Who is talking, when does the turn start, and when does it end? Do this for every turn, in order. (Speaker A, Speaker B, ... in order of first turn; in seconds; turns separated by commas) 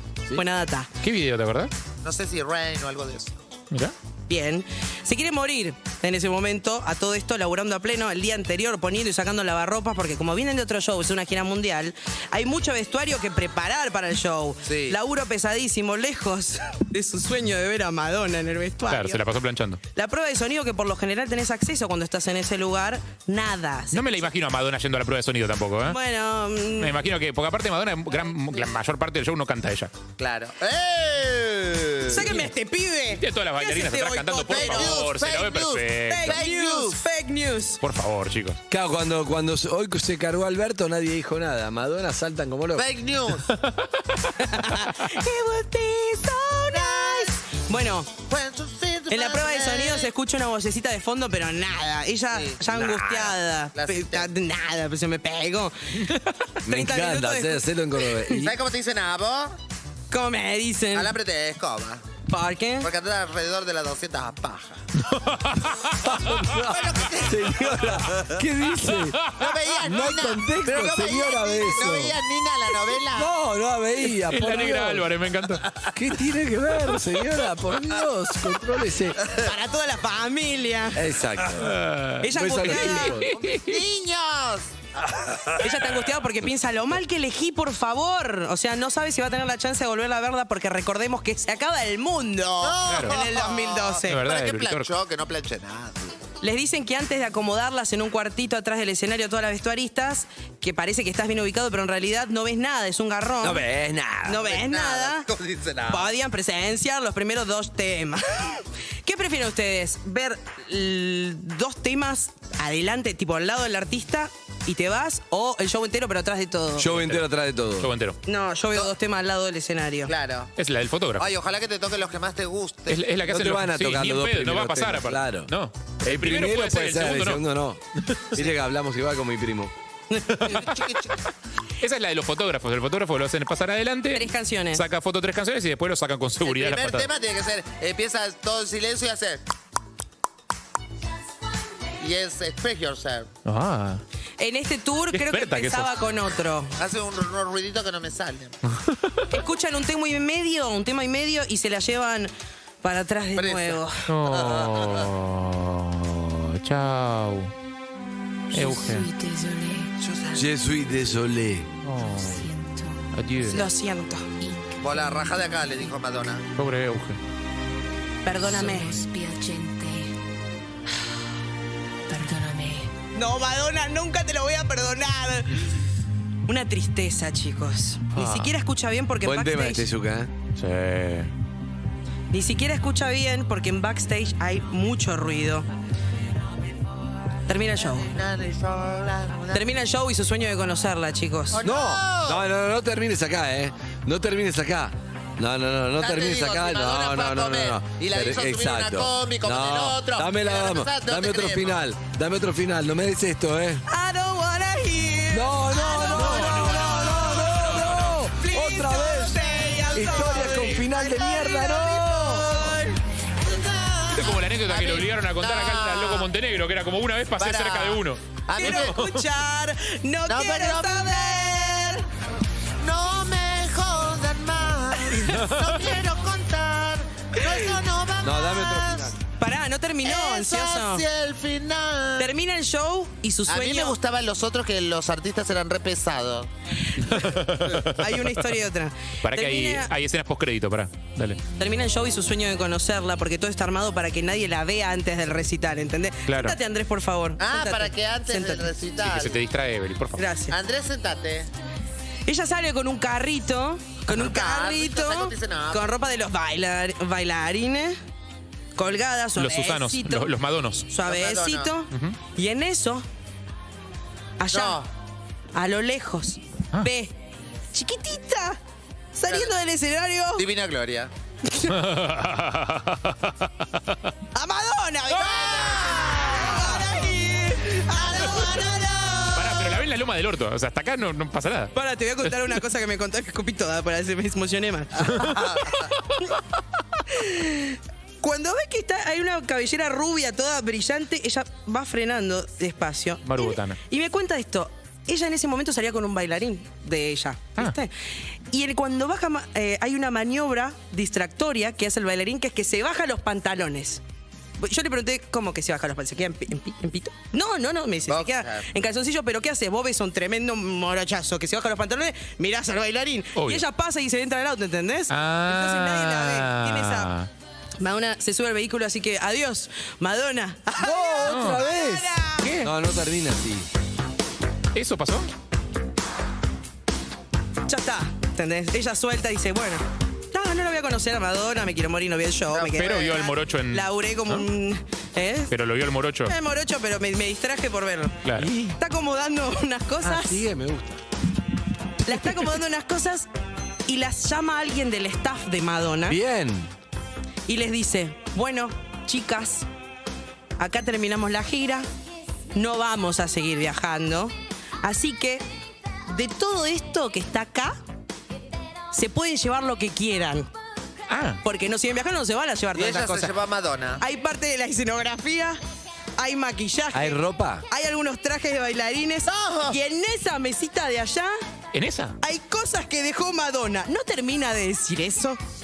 Speaker A: 0.3-0.9, Speaker B: 1.0-1.7, Speaker C: 2.0-3.4, Speaker A: 4.3-19.2, Speaker C: 14.6-15.0, Speaker B: 18.9-19.8, Speaker A: 19.9-24.2, Speaker B: 23.9-26.0, Speaker A: 25.8-26.9, Speaker B: 26.8-29.9, Speaker C: 28.5-28.8, Speaker C: 30.2-32.3, Speaker A: 32.1-35.1, Speaker B: 33.1-36.3, Speaker C: 34.5-37.0, Speaker A: 36.1-37.8, Speaker B: 37.8-38.6, Speaker D: 38.7-42.9, Speaker C: 42.7-43.5, Speaker B: 43.7-44.3, Speaker A: 44.4-48.1, Speaker C: 46.7-47.3, Speaker C: 48.3-50.1, Speaker A: 49.1-58.5, Speaker C: 52.3-54.3, Speaker D: 56.6-58.5, Speaker C: 58.4-59.6, Speaker A: 60.1-61.1, Speaker C: 60.9-62.0, Speaker A: 62.3-62.9, Speaker C: 62.8-64.8, Speaker B: 65.0-66.0, Speaker D: 66.0-69.2, Speaker C: 66.4-68.4, Speaker B: 69.2-69.6, Speaker C: 69.4-73.3, Speaker D: 69.8-72.2, Speaker D: 73.1-75.1, Speaker B: 74.1-75.7, Speaker D: 75.9-79.2, Speaker A: 79.3-81.0, Speaker D: 80.9-81.7, Speaker B: 81.6-83.8, Speaker A: 82.2-83.2, Speaker D: 82.3-83.3, Speaker C: 83.3-85.6, Speaker A: 85.6-94.2, Speaker C: 92.6-96.2, Speaker B: 92.8-93.2, Speaker B: 94.1-94.9, Speaker A: 96.4-103.6, Speaker D: 103.4-104.4, Speaker A: 104.2-105.3, Speaker C: 104.4-106.1, Speaker A: 105.9-117.1, Speaker D: 116.8-117.9, Speaker B: 117.8-118.2, Speaker A: 118.2-120.1, Speaker C: 120.1-120.5, Speaker B: 120.5-121.3, Speaker C: 121.2-123.0, Speaker B: 122.9-127.4, Speaker D: 123.3-125.5, Speaker D: 126.0-127.8, Speaker D: 128.3-129.7, Speaker A: 130.1-130.6, Speaker B: 130.4-130.8, Speaker C: 130.4-131.2, Speaker B: 131.8-137.1, Speaker A: 134.1-134.8, Speaker C: 136.4-139.4, Speaker C: 142.0-143.3, Speaker B: 143.4-144.0, Speaker A: 144.4-146.8, Speaker B: 145.1-145.9, Speaker C: 146.8-148.5, Speaker B: 148.7-149.2, Speaker A: 149.3-154.1, Speaker C: 153.3-155.1, Speaker B: 154.1-157.5, Speaker B: 158.5-159.1, Speaker E: 158.5-159.9, Speaker C: 160.0-160.5, Speaker D: 160.3-161.7, Speaker B: 161.8-162.5, Speaker E: 162.2-163.0, Speaker B: 163.1-163.6, Speaker A: 163.5-164.3, Speaker E: 164.4-165.5, Speaker C: 164.8-166.4, Speaker B: 166.6-167.2, Speaker A: 168.2-169.0, Speaker E: 168.5-170.1, Speaker E: 172.1-172.9, Speaker A: 173.1-175.8, Speaker A: 176.4-179.9, Speaker B: 178.2-178.5, Speaker D: 179.2-180.3, Speaker B: 180.5-181.3, Speaker A: 182.3-185.7, Speaker A: 187.5-188.1, Speaker C: 188.1-189.7, Speaker A: 189.5-191.7, Speaker C: 191.5-192.4, Speaker D: 191.6-203.8, Speaker C: 196.0-201.8, Speaker A: 203.9-207.6, Speaker D: 205.3-212.7, Speaker B: 206.1-208.2, Speaker A: 208.3-213.0, Speaker C: 213.4-216.3, Speaker B: 214.1-219.1, Speaker C: 217.4-219.0, Speaker A: 218.6-222.0, Speaker C: 220.2-221.7, Speaker C: 222.8-229.1, Speaker A: 225.1-225.4, Speaker D: 228.2-229.2, Speaker A: 229.4-231.0, Speaker C: 230.0-232.3, Speaker A: 232.2-233.9, Speaker C: 233.5-236.5, Speaker B: 237.0-238.4, Speaker A: 237.9-239.9, Speaker B: 239.2-241.4, Speaker A: 241.6-248.7, Speaker B: 246.3-246.6, Speaker C: 247.4-249.4, Speaker B: 249.0-250.2, Speaker A: 250.2-250.6, Speaker C: 250.5-251.5, Speaker A: 252.2-257.9, Speaker C: 254.1-255.9, Speaker A: 258.7-260.3, Speaker B: 259.4-260.9, Speaker A: 260.9-263.1, Speaker C: 261.0-261.7, Speaker B: 261.9-262.2, Speaker A: 264.4-264.9, Speaker C: 264.5-264.9, Speaker A: 265.5-267.1, Speaker A: 267.7-268.6, Speaker A: 269.1-270.5, Speaker C: 270.4-271.1, Speaker A: 271.5-271.8, Speaker B: 271.7-273.9, Speaker A: 274.3-279.7, Speaker C: 275.1-276.7, Speaker C: 277.9-278.8, Speaker B: 279.3-281.7, Speaker A: 281.7-285.9, Speaker C: 285.1-285.8, Speaker A: 287.1-297.9, Speaker B: 293.2-293.8, Speaker A: 298.5-304.0, Speaker A: 304.6-317.1, Speaker C: 308.1-308.6, Speaker B: 313.4-313.6, Speaker B: 315.1-317.3, Speaker A: 317.8-322.6, Speaker D: 320.8-322.1, Speaker B: 321.2-321.6, Speaker B: 322.4-322.7, Speaker D: 322.6-323.7, Speaker B: 324.7-325.3, Speaker A: 327.7-335.5, Speaker C: 332.5-333.2, Speaker B: 332.7-334.4, Speaker B: 335.5-336.3, Speaker A: 336.2-338.2, Speaker B: 338.2-338.5, Speaker D: 338.3-338.8, Speaker A: 338.7-340.4, Speaker D: 340.0-341.0, Speaker A: 342.0-343.3, Speaker A: 343.9-346.2, Speaker D: 346.1-346.7, Speaker A: 347.5-349.7, Speaker A: 350.6-351.9, Speaker A: 352.5-355.4, Speaker A: 356.1-357.8, Speaker A: 358.9-360.5, Speaker B: 361.1-361.4, Speaker A: 361.4-363.3, Speaker C: 362.7-364.0, Speaker A: 364.0-365.6, Speaker A: 366.2-371.3, Speaker D: 366.9-367.6, Speaker C: 369.2-369.8, Speaker B: 371.7-372.1, Speaker A: 372.2-375.4